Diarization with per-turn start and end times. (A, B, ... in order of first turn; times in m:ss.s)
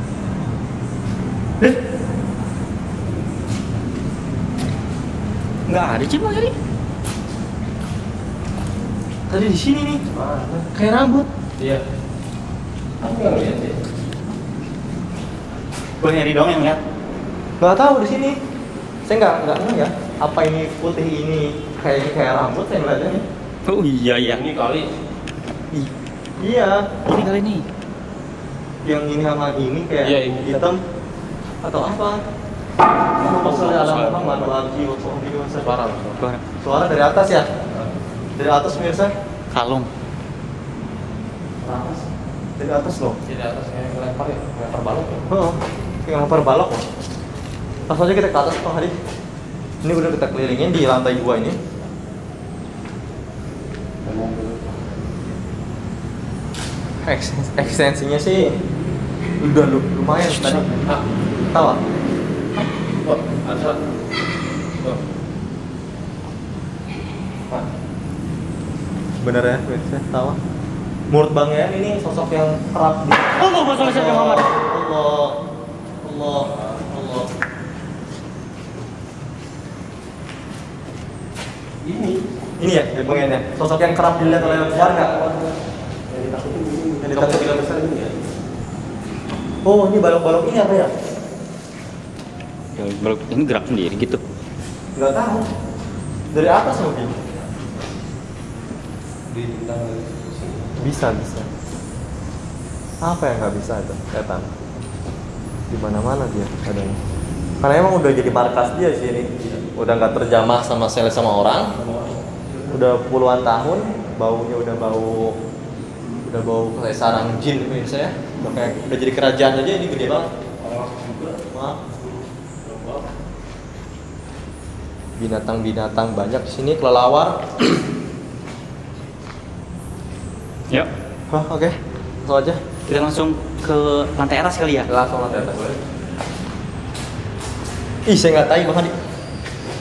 0:05.7-0:06.5 A
0:09.3-0:10.0 B
0:10.1-0:10.7 C
0:10.7-0:11.2 B
0:11.6-0:11.8 C
0:13.0-0:13.8 C
0:16.0-0:16.8 A
0:17.6-0:18.4 B
0:19.1-0:23.2 B
0:23.7-0:24.4 A
0:24.2-0:24.9 C
0:26.4-0:27.0 B
0:27.1-0:27.6 A
0:28.8-0:30.8 B
0:30.0-0:30.7 C
0:31.6-0:32.2 B
0:33.2-0:35.8 B
0:33.2-0:34.6 C
0:35.6-0:36.2 C
0:36.2-0:36.4 A
0:36.6-0:37.5 B
0:38.4-0:39.1 B
0:39.5-0:39.9 A
0:41.6-0:42.0 B
0:42.6-0:43.2 B
0:43.2-0:45.3 C
0:45.3-0:46.8 B
0:47.9-0:48.9 B
0:49.8-0:51.6 B
0:54.0-0:55.3 C
0:57.0-0:58.6 B
0:59.4-1:00.7 B
1:00.2-1:01.1 C
1:01.5-1:01.8 B
1:03.0-1:03.8 C
1:04.8-1:05.0 C
1:09.2-1:10.4 B
1:11.1-1:15.4 B
1:13.4-1:14.5 A
1:16.0-1:17.3 B
1:16.5-1:16.8 C
1:21.8-1:22.2 C
1:22.6-1:25.3 B
1:24.2-1:25.5 C
1:26.1-1:28.2 C
1:27.0-1:27.7 B
1:29.6-1:30.9 B
1:32.8-1:34.2 A
1:35.0-1:35.5 B
1:36.3-1:37.2 B
1:39.3-1:40.7 C
1:40.8-1:41.5 B
1:43.0-1:44.5 B
1:45.7-1:47.0 B
1:47.6-1:51.7 B
1:51.8-1:52.8 C
1:52.7-1:55.4 B
1:56.3-2:00.3 B
1:58.5-1:58.8 C
2:00.6-2:01.4 C
2:01.5-2:01.8 B
2:02.0-2:03.1 C
2:05.2-2:07.8 B
2:11.3-2:12.6 B
2:12.9-2:14.9 A
2:14.9-2:15.8 B
2:18.0-2:18.9 B